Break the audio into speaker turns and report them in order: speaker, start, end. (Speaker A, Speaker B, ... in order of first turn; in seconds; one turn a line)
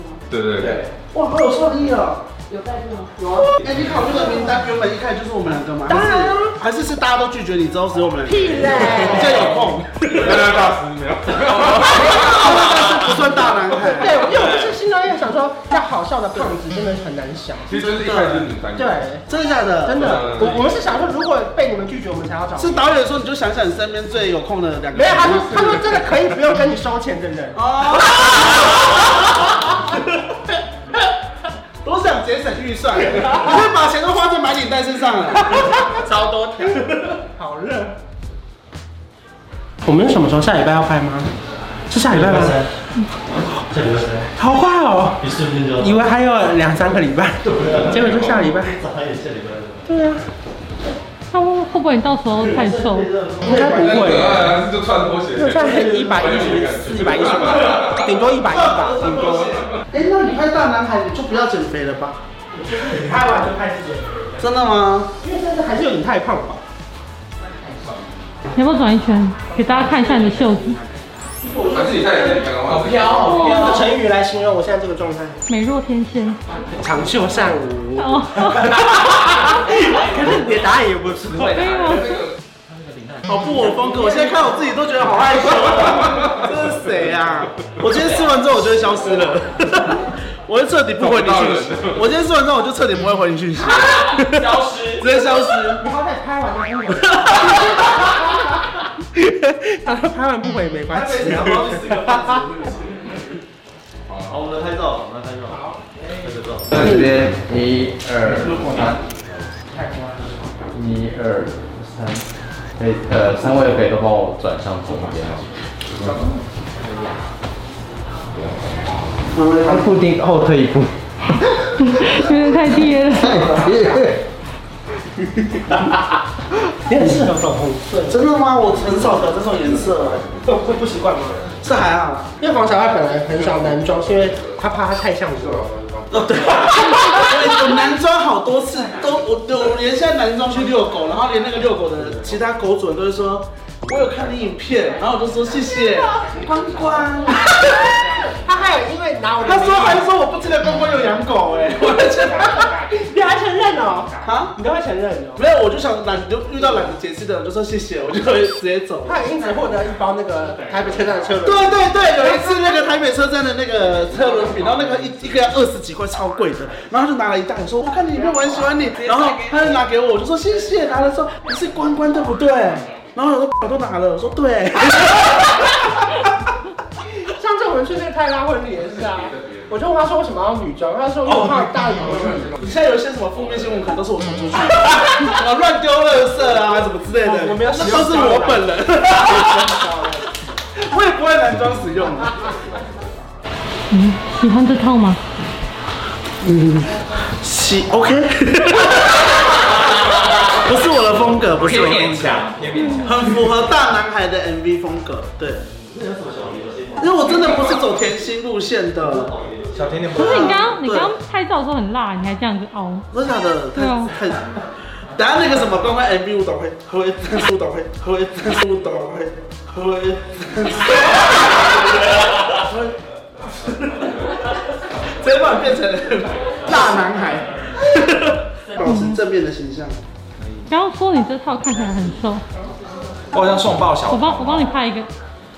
Speaker A: 0.3-0.8
Speaker B: 0.6-2.2
Speaker C: 3.2-3.5
Speaker B: 3.6-10.6
Speaker C: 5.9-6.5
Speaker C: 8.2-9.6
Speaker A: 10.1-12.2
Speaker C: 11.7-13.2
Speaker B: 11.9-14.3
Speaker C: 13.8-17.8
Speaker D: 14.3-14.7
Speaker A: 17.7-19.0
Speaker B: 18.0-18.4
Speaker C: 18.7-19.2
Speaker B: 19.3-20.5
Speaker C: 19.8-22.9
Speaker A: 19.9-20.8
Speaker B: 22.6-25.7
Speaker C: 24.9-27.6
Speaker B: 27.5-28.9
Speaker B: 31.8-35.8
Speaker C: 35.6-36.0
Speaker D: 35.9-36.9
Speaker C: 36.6-38.0
Speaker C: 39.8-41.3
Speaker C: 41.9-42.6
Speaker E: 42.1-42.7
Speaker E: 43.7-44.3
Speaker C: 44.4-48.8
Speaker E: 45.2-46.0
Speaker E: 47.5-49.8
Speaker C: 49.9-50.2
Speaker F: 51.3-53.1
Speaker E: 52.4-54.0
Speaker C: 53.4-54.6
Speaker A: 53.6-58.0
Speaker C: 55.3-59.5
Speaker B: 58.4-62.2
Speaker C: 62.5-64.5
Speaker B: 64.4-65.1
Speaker C: 65.2-66.6
Speaker F: 68.5-70.8
Speaker C: 71.4-72.5
Speaker A: 71.7-73.4
Speaker D: 72.7-73.8
Speaker C: 73.2-75.4
Speaker F: 75.5-76.4
Speaker C: 76.7-81.7
Speaker F: 78.0-78.7
Speaker F: 81.5-82.2
Speaker B: 83.2-95.8
Speaker A: 91.0-92.0
Speaker D: 93.6-95.0
Speaker C: 95.8-98.6
Speaker C: 99.2-102.3
Speaker B: 100.9-103.2
Speaker A: 104.1-104.4
Speaker E: 104.3-105.6
Speaker C: 105.5-106.1
Speaker E: 106.2-106.8
Speaker G: 106.7-108.9
Speaker E: 108.4-108.8
Speaker G: 110.7-112.2
Speaker G: 112.8-115.4
Speaker B: 119.4-119.8
Speaker G: 119.7-120.9
Speaker F: 121.8-123.5
Speaker B: 123.2-123.9
Speaker E: 123.8-124.1
Speaker C: 126.9-128.2
Speaker B: 128.1-130.2
Speaker C: 130.4-131.3
Speaker B: 131.6-132.3
Speaker C: 132.4-135.7
Speaker A: 133.4-133.7
Speaker A: 135.4-136.7
Speaker B: 136.2-147.8
Speaker C: 148.1-150.1
Speaker B: 149.4-152.7
Speaker C: 152.2-155.4
Speaker B: 154.2-154.5
Speaker B: 155.3-159.2
Speaker C: 159.0-162.9
Speaker B: 161.4-176.1
Speaker D: 168.3-169.7
Speaker C: 177.3-182.5
Speaker A: 179.1-179.6
Speaker A: 182.1-182.6
Speaker B: 182.6-189.8
Speaker C: 187.2-190.2
Speaker B: 190.7-192.6
Speaker F: 193.9-195.2
Speaker B: 196.4-199.5
Speaker D: 200.1-200.4
Speaker B: 200.5-202.5
Speaker D: 201.5-203.5
Speaker B: 203.0-205.7
Speaker E: 205.9-207.3
Speaker B: 207.0-209.3
Speaker E: 209.1-209.8
Speaker D: 209.8-210.4
Speaker F: 210.1-213.1
Speaker B: 210.2-211.1
Speaker B: 213.1-214.5
Speaker F: 213.7-214.1
Speaker B: 215.1-222.9
Speaker B: 223.6-224.3
Speaker B: 225.2-230.0
Speaker F: 228.8-229.2
Speaker F: 230.7-232.4
Speaker D: 233.3-234.6
Speaker F: 234.1-235.1